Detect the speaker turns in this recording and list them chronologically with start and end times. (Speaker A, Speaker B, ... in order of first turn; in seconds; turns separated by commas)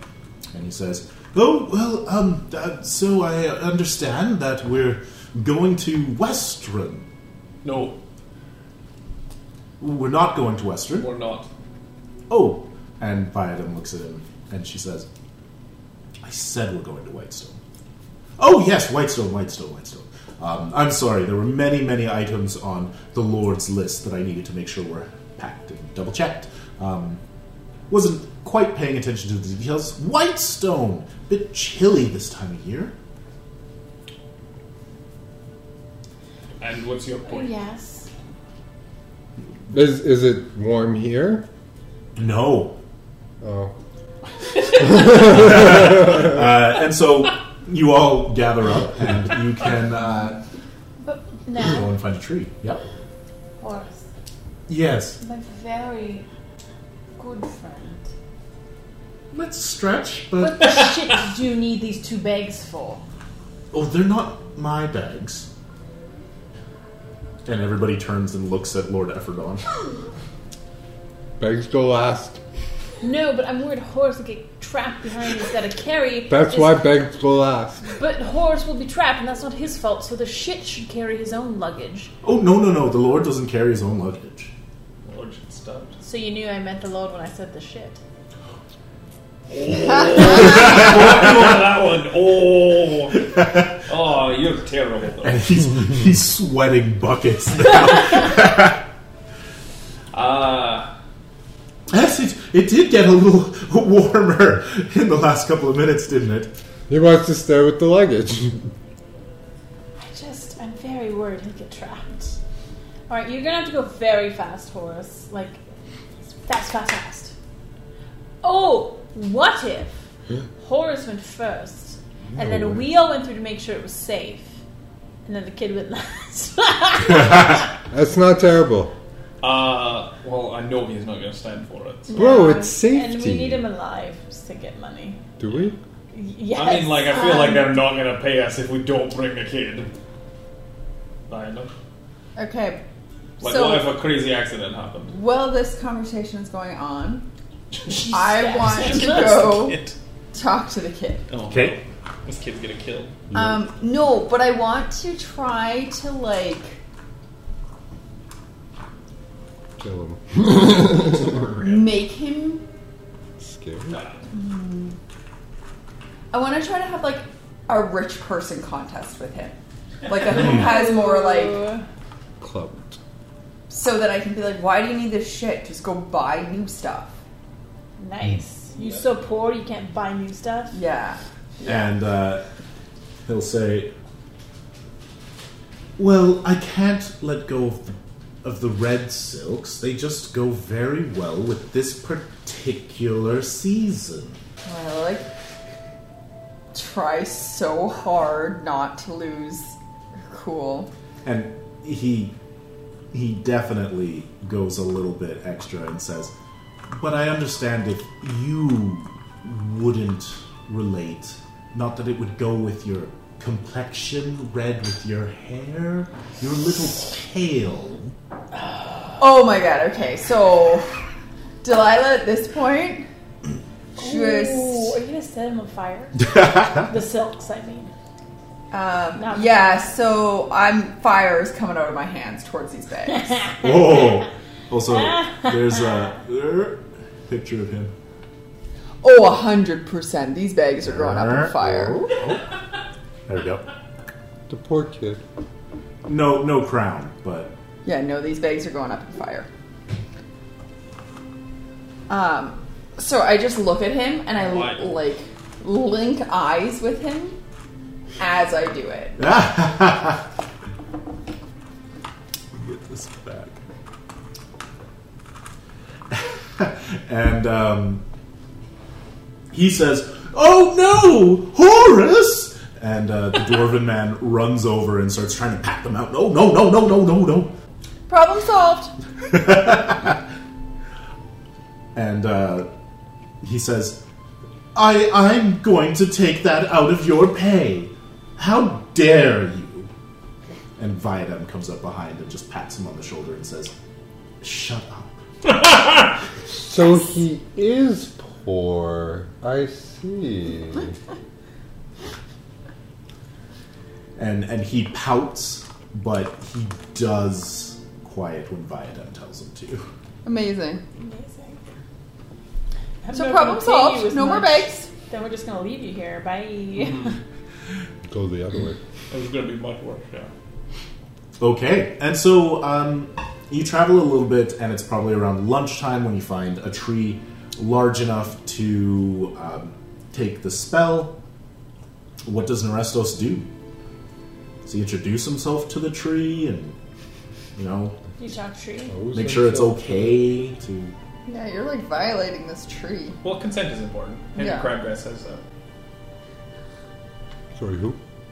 Speaker A: 0.5-7.1, Speaker B: 7.6-8.0, Speaker A: 9.8-11.1, Speaker B: 10.9-11.5, Speaker A: 12.3-15.1, Speaker A: 16.2-17.6, Speaker A: 18.4-27.2, Speaker A: 27.9-32.9, Speaker B: 36.6-37.5, Speaker C: 37.3-38.1, Speaker D: 39.7-41.5, Speaker A: 42.2-42.8, Speaker D: 43.4-43.7, Speaker A: 44.8-50.4, Speaker D: 45.3-45.9, Speaker C: 51.0-51.9, Speaker A: 51.6-52.9, Speaker C: 53.6-54.1, Speaker A: 54.7-55.2, Speaker C: 55.2-56.3, Speaker C: 57.2-58.1, Speaker A: 59.3-60.8, Speaker C: 60.4-63.0, Speaker A: 63.7-65.5, Speaker A: 67.5-69.7, Speaker D: 71.4-72.4, Speaker C: 73.0-76.9, Speaker D: 76.3-77.8, Speaker C: 77.9-82.1, Speaker A: 82.2-84.5, Speaker B: 85.0-86.0, Speaker C: 86.0-88.0, Speaker B: 89.5-95.4, Speaker A: 90.4-90.8, Speaker A: 93.3-93.7, Speaker A: 95.2-98.8, Speaker B: 100.1-100.9, Speaker A: 101.9-106.5, Speaker D: 106.9-108.7, Speaker C: 110.0-112.4, Speaker C: 113.1-115.6, Speaker C: 116.4-117.3, Speaker C: 118.4-120.1, Speaker C: 120.6-124.5, Speaker C: 125.3-127.6, Speaker D: 127.9-128.9, Speaker B: 129.4-132.2, Speaker C: 132.1-135.2, Speaker D: 132.2-133.7, Speaker D: 135.4-135.8, Speaker C: 136.1-137.7, Speaker B: 136.5-139.9, Speaker B: 141.3-141.7, Speaker E: 142.4-142.8, Speaker E: 143.4-143.9, Speaker B: 143.4-145.1, Speaker E: 145.1-147.3, Speaker B: 147.8-150.0, Speaker C: 147.9-149.3, Speaker E: 147.9-151.3, Speaker B: 151.3-153.2, Speaker A: 151.4-151.8, Speaker E: 153.3-156.8, Speaker D: 159.8-161.4, Speaker B: 160.8-161.9, Speaker E: 161.6-162.7, Speaker D: 163.4-164.0, Speaker B: 163.9-164.3, Speaker E: 164.3-165.0, Speaker E: 166.3-169.6, Speaker E: 170.1-171.8, Speaker C: 170.3-171.8, Speaker D: 172.4-173.0, Speaker E: 173.7-177.1, Speaker C: 178.0-180.8, Speaker B: 178.8-179.0, Speaker E: 180.7-181.9, Speaker A: 181.7-182.4, Speaker A: 183.2-183.9, Speaker A: 186.0-194.4, Speaker E: 194.7-195.3, Speaker E: 196.7-199.8, Speaker E: 200.3-200.9, Speaker A: 201.2-202.3, Speaker A: 203.1-206.3, Speaker A: 206.9-218.1, Speaker E: 219.2-221.0, Speaker E: 221.6-223.1, Speaker E: 224.0-225.0, Speaker C: 224.0-227.9, Speaker E: 228.7-233.6, Speaker C: 229.2-229.7, Speaker A: 233.6-237.9, Speaker E: 239.0-242.1, Speaker A: 240.8-242.5, Speaker A: 243.3-243.7, Speaker D: 244.5-245.2, Speaker A: 246.1-247.6, Speaker E: 247.8-249.5, Speaker E: 252.1-257.4, Speaker B: 254.4-255.0, Speaker E: 258.2-259.2, Speaker A: 259.2-260.3, Speaker A: 262.5-263.6, Speaker A: 266.1-268.0, Speaker A: 269.5-277.5, Speaker E: 278.1-278.9, Speaker A: 279.3-280.2, Speaker A: 281.9-282.7, Speaker A: 283.4-284.0, Speaker A: 284.7-289.9, Speaker A: 290.8-293.7, Speaker A: 294.4-295.2, Speaker B: 295.5-296.1, Speaker D: 296.5-300.9, Speaker A: 304.2-309.9, Speaker E: 310.2-310.8, Speaker C: 311.0-311.6, Speaker C: 313.0-317.2, Speaker E: 313.1-314.9, Speaker B: 316.8-317.1, Speaker D: 318.1-318.8, Speaker B: 319.1-320.3, Speaker A: 321.4-331.2, Speaker A: 332.2-333.5, Speaker A: 334.6-336.8, Speaker A: 337.6-338.0, Speaker C: 338.2-338.9, Speaker D: 338.9-340.1, Speaker A: 339.1-340.9, Speaker E: 341.3-343.2, Speaker B: 343.2-345.4, Speaker E: 344.4-344.7, Speaker D: 347.6-348.0